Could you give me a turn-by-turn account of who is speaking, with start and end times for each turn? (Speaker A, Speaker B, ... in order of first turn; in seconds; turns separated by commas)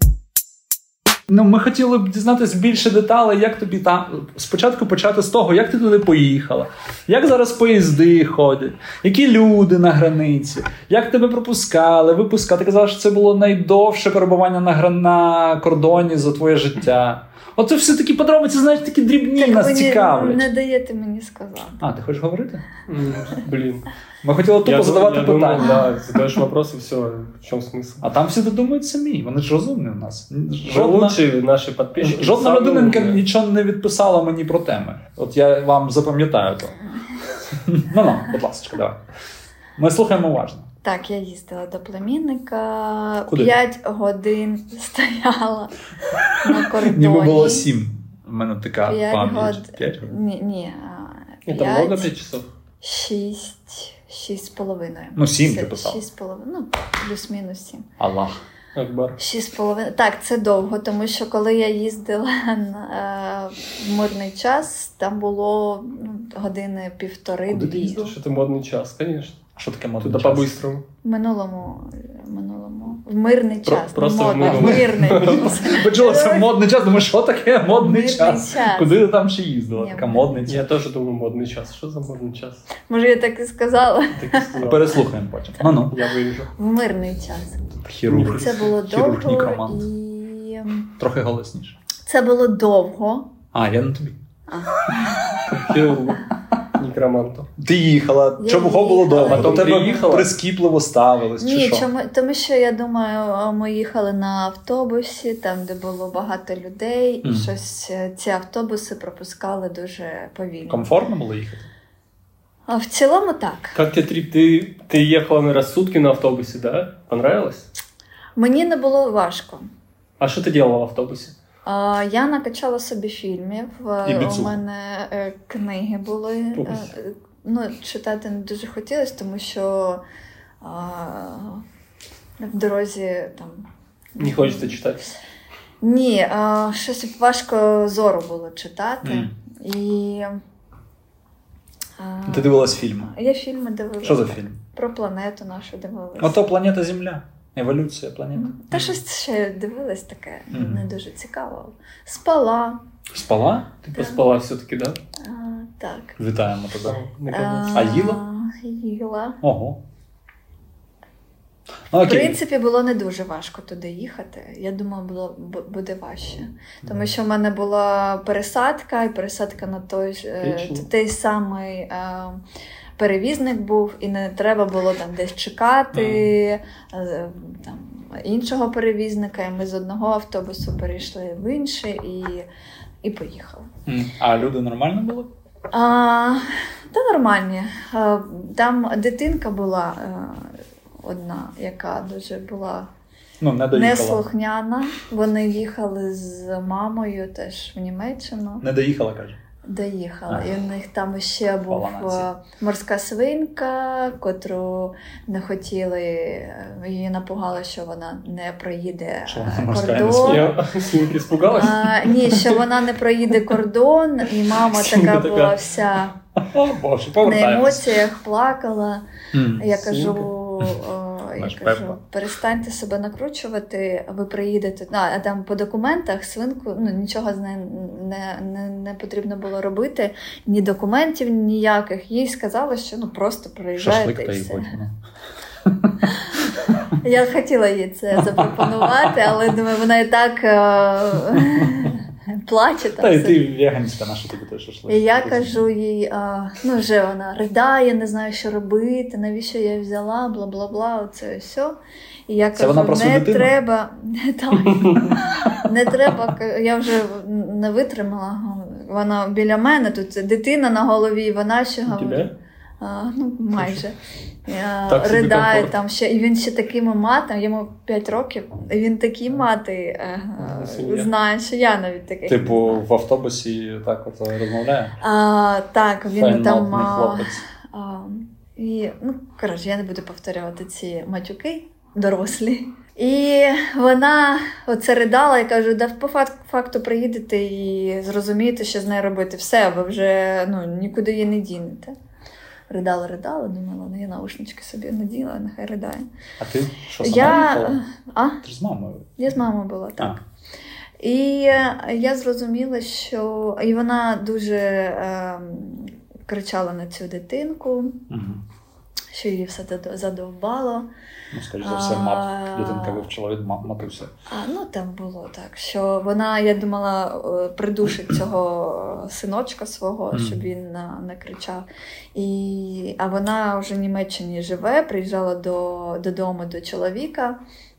Speaker A: 1.3-20.5, Speaker B: 19.4-21.8, Speaker A: 21.8-22.6, Speaker C: 22.9-23.9, Speaker A: 24.2-25.8, Speaker C: 24.6-28.0, Speaker B: 25.6-25.9, Speaker A: 28.0-31.2, Speaker C: 30.6-33.2, Speaker A: 32.0-36.8, Speaker A: 37.4-39.0, Speaker A: 39.8-40.7, Speaker B: 40.8-45.7, Speaker A: 43.3-43.5, Speaker B: 46.3-47.7, Speaker A: 46.4-50.1, Speaker B: 48.8-52.1, Speaker C: 51.5-52.5, Speaker B: 52.8-57.9, Speaker A: 55.1-56.0, Speaker A: 58.0-58.4, Speaker C: 58.7-59.1, Speaker B: 59.2-68.1, Speaker A: 67.5-68.1, Speaker C: 67.9-69.4, Speaker A: 69.5-70.5, Speaker C: 70.0-70.8, Speaker B: 71.0-76.5, Speaker C: 73.9-75.5, Speaker A: 74.4-80.7, Speaker B: 77.7-79.0, Speaker B: 79.8-80.5, Speaker C: 80.5-82.6, Speaker B: 82.9-84.5, Speaker C: 84.1-85.0, Speaker A: 84.6-86.0, Speaker C: 85.9-86.5, Speaker B: 86.5-87.7, Speaker A: 87.8-89.8, Speaker C: 88.1-88.7, Speaker B: 88.3-90.9, Speaker A: 91.0-91.8, Speaker B: 92.0-93.3, Speaker A: 93.5-94.2, Speaker B: 94.5-95.2, Speaker C: 95.5-97.5, Speaker A: 97.6-101.9, Speaker B: 98.4-99.9, Speaker C: 99.2-100.3, Speaker B: 101.4-110.9, Speaker A: 107.2-107.5, Speaker A: 110.7-111.7, Speaker B: 112.7-113.8, Speaker C: 113.7-117.7, Speaker B: 118.3-119.7, Speaker C: 120.2-121.3, Speaker B: 121.6-130.0, Speaker A: 124.0-124.5, Speaker C: 126.5-126.9, Speaker B: 130.6-131.6, Speaker B: 132.4-134.8, Speaker C: 134.2-135.0, Speaker B: 135.8-140.4, Speaker A: 139.0-139.3, Speaker B: 142.0-146.4, Speaker A: 142.3-143.1, Speaker A: 144.0-144.6, Speaker A: 146.2-149.0, Speaker B: 148.3-152.8, Speaker A: 150.5-150.8, Speaker A: 153.1-153.8, Speaker C: 153.8-155.0, Speaker B: 155.2-156.2, Speaker A: 156.2-157.0, Speaker C: 156.8-157.8, Speaker B: 157.3-159.4, Speaker A: 157.7-158.2, Speaker A: 159.4-159.8, Speaker A: 161.9-162.4, Speaker B: 162.0-172.4, Speaker A: 166.8-167.1, Speaker C: 170.4-170.8, Speaker B: 173.0-182.4, Speaker A: 175.9-176.3, Speaker B: 183.0-183.7, Speaker A: 183.9-185.3, Speaker B: 185.7-192.9, Speaker A: 193.4-194.2, Speaker B: 193.7-198.7, Speaker A: 198.6-199.4, Speaker B: 199.6-210.5, Speaker A: 201.7-202.3, Speaker A: 209.3-210.6, Speaker C: 209.8-212.6, Speaker B: 211.5-216.2, Speaker C: 214.6-215.6, Speaker A: 216.4-217.9, Speaker B: 217.2-219.0, Speaker A: 219.3-219.7, Speaker B: 219.6-234.7, Speaker C: 219.8-220.3, Speaker A: 221.4-222.0, Speaker A: 233.8-234.9, Speaker A: 235.6-236.0, Speaker B: 237.0-243.4, Speaker A: 243.0-245.6, Speaker B: 244.9-251.8, Speaker B: 252.3-262.3, Speaker A: 252.6-253.5, Speaker C: 254.7-255.2, Speaker C: 261.9-262.3, Speaker B: 262.8-263.9, Speaker B: 264.5-272.8, Speaker C: 264.9-265.7, Speaker C: 270.4-271.1, Speaker A: 272.3-275.0, Speaker B: 275.0-291.9, Speaker A: 276.2-277.4, Speaker B: 292.7-296.1, Speaker A: 296.4-297.8, Speaker B: 297.0-298.4, Speaker A: 298.4-299.1, Speaker B: 299.2-300.2, Speaker B: 301.0-308.0, Speaker A: 308.1-308.4, Speaker B: 309.1-310.9, Speaker A: 311.3-314.1, Speaker B: 311.6-313.1, Speaker B: 314.3-327.4, Speaker A: 320.1-320.4